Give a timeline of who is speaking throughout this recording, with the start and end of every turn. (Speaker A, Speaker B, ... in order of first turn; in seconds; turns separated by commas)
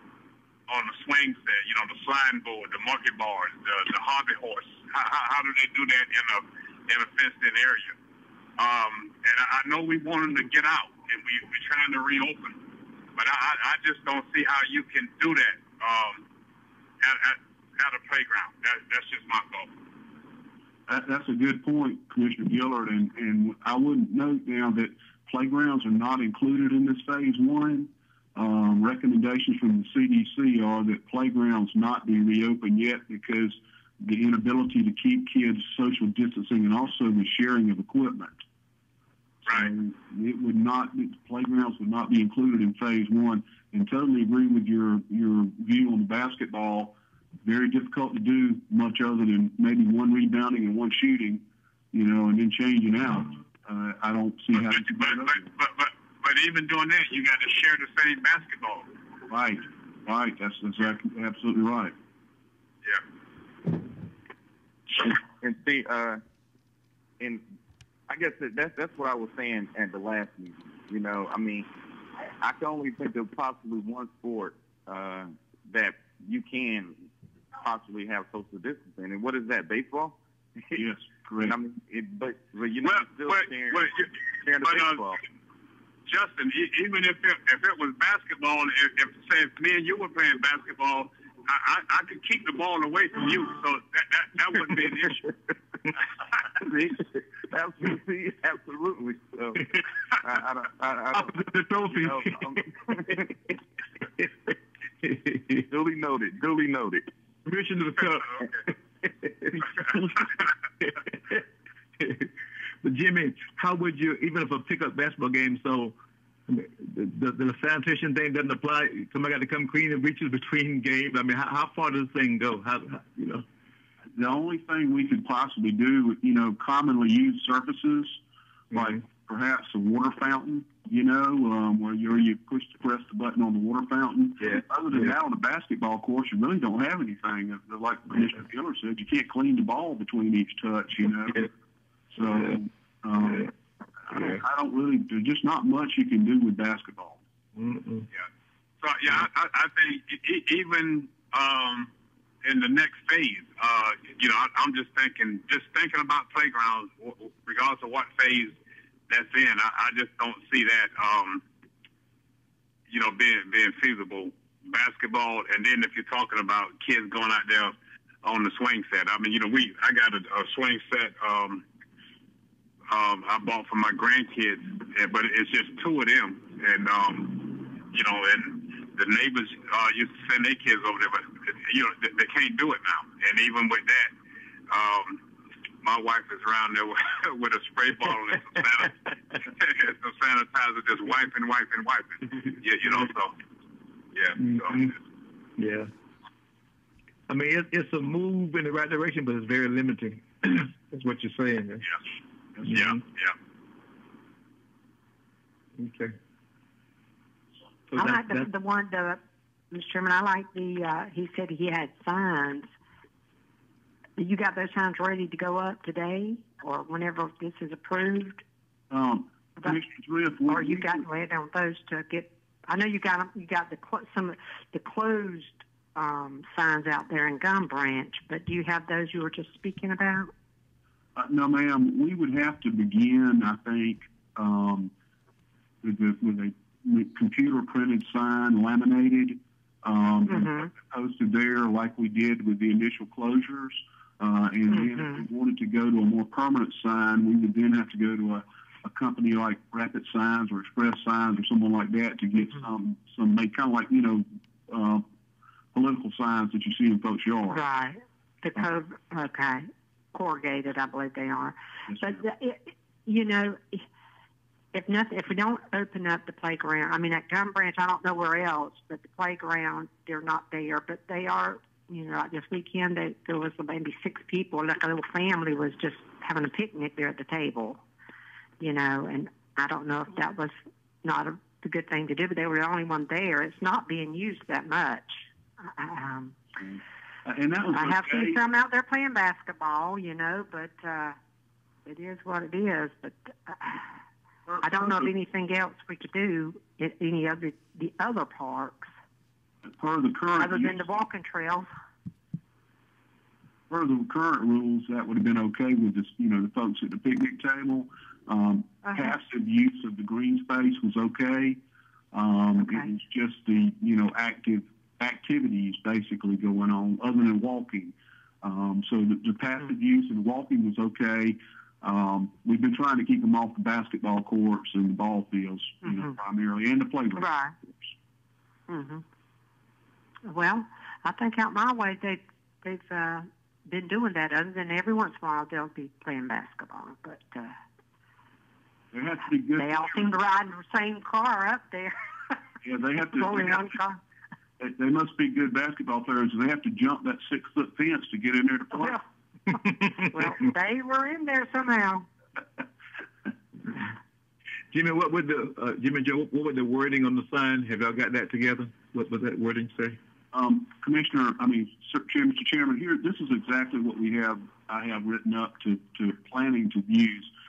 Speaker A: 0.7-7.9, Speaker A: 8.6-12.6, Speaker A: 13.2-16.2, Speaker A: 17.0-19.7, Speaker B: 20.9-38.4, Speaker A: 39.5-39.7, Speaker B: 39.5-55.5, Speaker A: 54.5-58.9, Speaker B: 59.3-61.9, Speaker C: 65.0-66.2, Speaker C: 68.1-71.7, Speaker C: 72.4-77.0, Speaker C: 77.6-80.2, Speaker B: 80.8-81.5, Speaker C: 81.4-85.2, Speaker A: 82.8-85.1, Speaker A: 86.0-95.2, Speaker C: 96.5-101.3, Speaker D: 101.1-103.3, Speaker C: 101.9-103.3, Speaker D: 104.1-105.7, Speaker C: 105.7-107.0, Speaker D: 107.4-110.3, Speaker D: 110.8-111.5, Speaker D: 112.0-112.3, Speaker D: 112.8-115.9, Speaker D: 116.5-123.4, Speaker B: 124.1-128.2, Speaker B: 128.7-141.5, Speaker D: 134.5-135.1, Speaker B: 142.1-143.5, Speaker B: 144.1-147.2, Speaker D: 147.5-148.1, Speaker A: 148.8-151.9, Speaker A: 152.4-158.6, Speaker A: 159.1-161.4, Speaker A: 162.9-171.6, Speaker A: 172.9-184.1, Speaker A: 184.7-185.2, Speaker A: 185.8-193.3, Speaker D: 188.8-189.4, Speaker A: 194.1-195.0, Speaker D: 194.4-194.9, Speaker D: 195.6-195.9, Speaker D: 197.3-201.9, Speaker D: 202.6-203.0, Speaker A: 202.7-203.3, Speaker D: 205.8-206.1, Speaker D: 207.9-208.5, Speaker E: 207.9-212.7, Speaker E: 214.2-218.4, Speaker B: 218.9-221.0, Speaker E: 220.5-230.3, Speaker B: 231.2-234.9, Speaker B: 235.8-255.0, Speaker E: 240.3-240.7, Speaker E: 244.7-245.2, Speaker B: 255.7-257.6, Speaker E: 257.5-263.8, Speaker B: 261.9-262.2, Speaker E: 264.7-277.8, Speaker E: 278.6-286.3, Speaker B: 286.6-288.4, Speaker E: 287.7-291.2, Speaker E: 291.9-294.0, Speaker E: 294.6-298.9, Speaker B: 299.7-300.8, Speaker E: 300.4-301.7, Speaker B: 303.7-311.6, Speaker E: 308.8-309.1, Speaker B: 312.1-327.3, Speaker E: 325.8-326.1, Speaker E: 327.1-327.5, Speaker E: 328.7-329.0, Speaker E: 330.2-337.6, Speaker B: 338.9-340.1, Speaker E: 339.6-342.3, Speaker B: 342.6-343.6, Speaker E: 343.1-344.0, Speaker B: 344.6-349.0, Speaker E: 349.5-352.1, Speaker D: 349.5-350.1, Speaker D: 354.7-360.0, Speaker B: 360.3-367.3